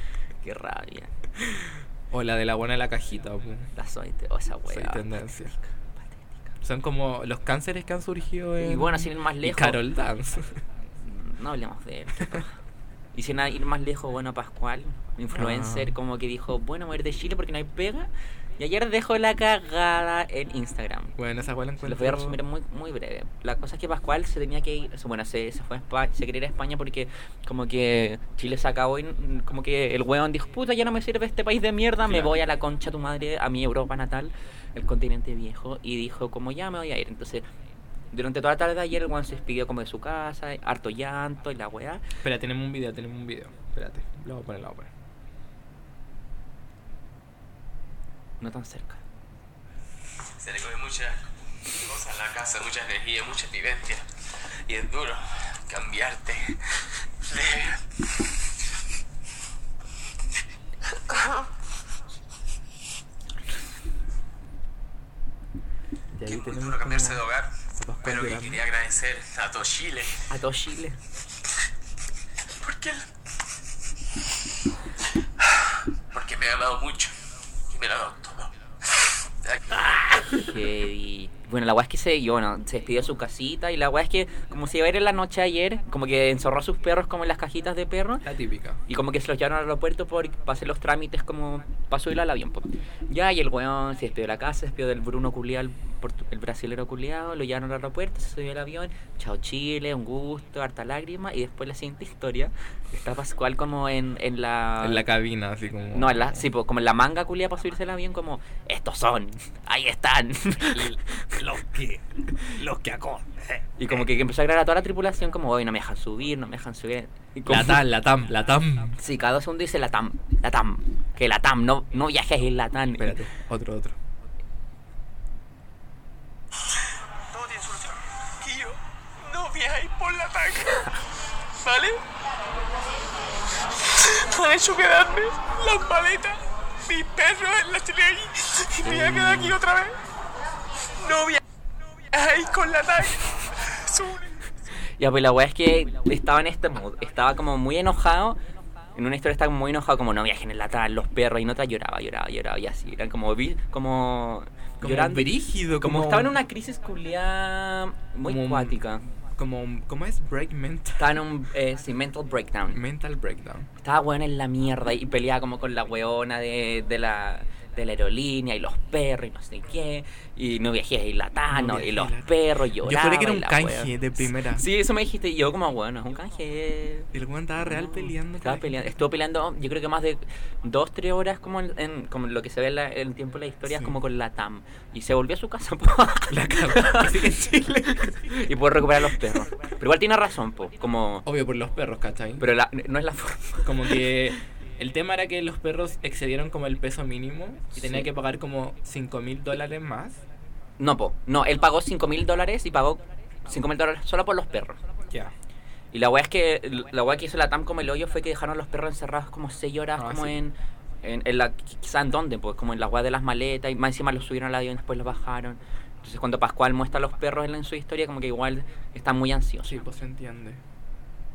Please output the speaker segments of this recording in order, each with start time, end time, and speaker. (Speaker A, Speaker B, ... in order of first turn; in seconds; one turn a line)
Speaker A: 0.4-1.1
Speaker B: 1.4-3.7
Speaker A: 3.7-6.5
Speaker B: 4.7-5.5
Speaker B: 6.6-10.6
Speaker A: 8.6-9.8
Speaker A: 11.0-12.6
Speaker A: 13.1-21.1
Speaker B: 15.3-15.9
Speaker B: 21.1-22.4
Speaker A: 21.8-37.5
Speaker B: 32.0-32.4
Speaker A: 38.1-42.0
Speaker B: 42.2-44.9
Speaker A: 48.4-49.0
Speaker C: 50.3-58.2
Speaker B: 66.1-67.2
Speaker C: 66.2-70.3
Speaker B: 67.8-68.6
Speaker A: 70.3-71.0
Speaker C: 72.5-73.1
Speaker C: 75.4-77.1
Speaker C: 77.7-80.1
Speaker A: 80.2-88.3
Speaker B: 88.2-88.8
Speaker A: 88.9-105.0
Speaker B: 104.8-106.5
Speaker A: 105.9-111.4
Speaker B: 110.7-113.6
Speaker A: 113.8-117.8
Speaker B: 117.5-119.0
Speaker A: 118.9-123.2
Speaker B: 123.0-124.0
Speaker C: 127.3-130.9
Speaker C: 131.6-132.0
Speaker C: 133.9-140.0
Speaker A: 138.8-139.6
Speaker C: 141.0-141.4
Speaker C: 142.1-144.3
Speaker A: 144.8-148.4
Speaker A: 148.9-159.0
Speaker B: 154.8-156.4
Speaker B: 158.2-161.2
Speaker A: 161.0-162.8
Speaker B: 162.7-163.7
Speaker A: 163.8-191.2
Speaker B: 171.5-174.6
Speaker B: 177.1-179.0
Speaker B: 183.7-183.9
Speaker B: 186.3-188.5
Speaker B: 189.0-189.3
Speaker B: 191.2-192.5
Speaker A: 192.4-194.3
Speaker B: 193.6-200.2
Speaker A: 197.7-198.1
Speaker A: 200.8-204.8
Speaker B: 205.1-205.3
Speaker A: 205.9-219.8
Speaker B: 209.9-210.4
Speaker B: 219.6-220.6